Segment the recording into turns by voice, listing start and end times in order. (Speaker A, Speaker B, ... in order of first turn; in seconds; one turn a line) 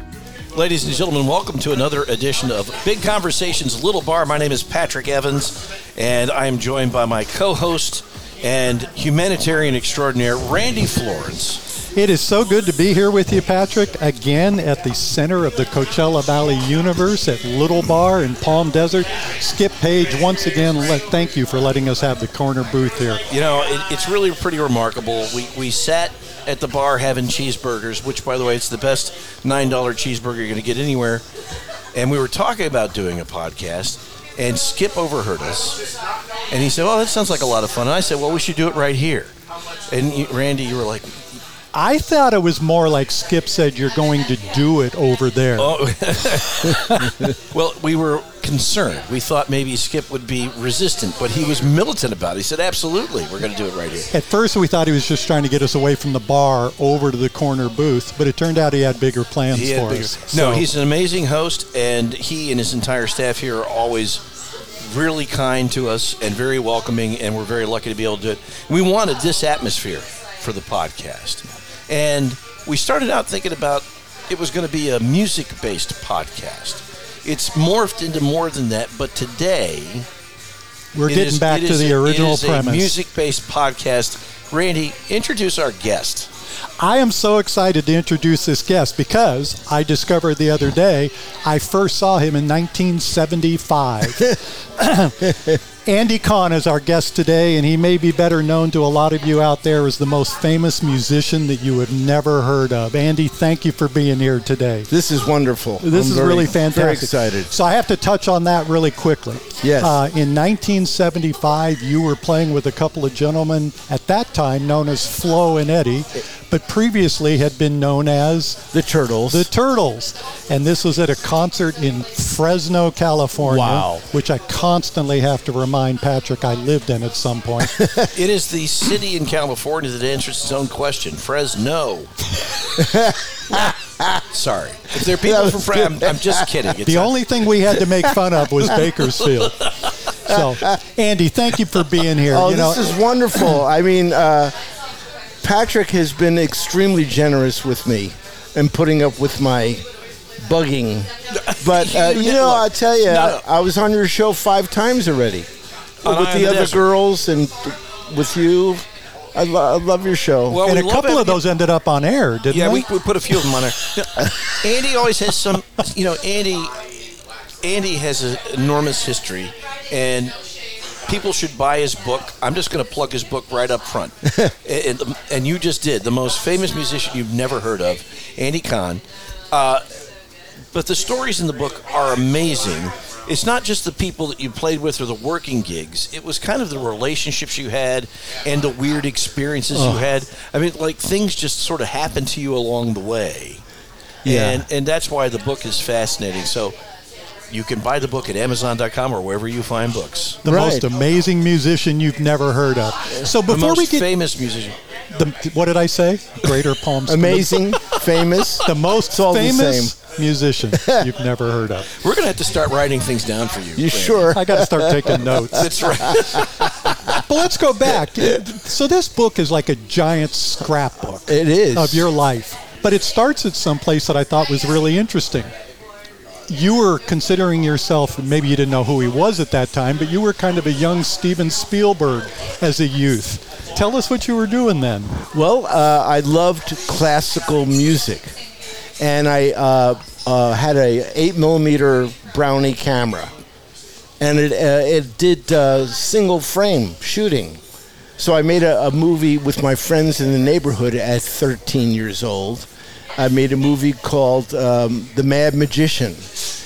Speaker A: 0.5-11.6
Speaker B: 11.9-23.2
Speaker A: 23.3-31.2
Speaker A: 31.9-35.8
Speaker A: 36.5-39.3
Speaker A: 39.9-41.2
Speaker B: 41.7-45.8
Speaker A: 45.6-54.1
Speaker B: 54.1-60.7
Speaker A: 59.5-64.2
Speaker A: 64.8-80.1
Speaker B: 80.9-83.0
Speaker A: 81.1-86.3
Speaker B: 86.8-104.9
Speaker C: 104.9-107.5
Speaker B: 105.8-118.7
Speaker C: 109.6-110.0
Speaker C: 118.7-119.5
Speaker B: 119.3-127.8
Speaker C: 123.4-124.0
Speaker C: 127.7-128.1
Speaker A: 128.1-132.1
Speaker C: 132.8-134.2
Speaker A: 134.3-137.1
Speaker C: 135.0-136.5
Speaker B: 136.8-139.6
Speaker A: 139.4-139.7
Speaker B: 140.2-142.9
Speaker C: 142.3-144.5
Speaker C: 145.4-149.8
Speaker C: 150.4-155.5
Speaker A: 151.3-153.4
Speaker C: 156.0-160.6
Speaker A: 156.0-156.9
Speaker A: 160.5-161.4
Speaker B: 160.6-162.8
Speaker A: 162.5-167.1
Speaker A: 167.6-170.3
Speaker A: 171.1-179.8
Speaker A: 180.7-193.6
Speaker C: 189.7-190.1
Speaker C: 194.2-194.7
Speaker A: 194.2-196.8
Speaker A: 197.5-200.4
Speaker B: 200.4-204.1
Speaker C: 200.4-200.9
Speaker A: 203.4-204.8
Speaker B: 205.1-207.7
Speaker C: 207.1-209.9
Speaker B: 208.6-211.9
Speaker C: 210.7-211.1
Speaker A: 212.0-214.3
Speaker C: 213.8-216.4
Speaker B: 214.3-215.7
Speaker A: 215.5-216.7
Speaker B: 217.1-225.5
Speaker C: 221.3-222.1
Speaker B: 226.5-235.2
Speaker C: 235.3-238.3
Speaker C: 239.0-243.3
Speaker C: 244.2-247.6
Speaker C: 248.2-256.3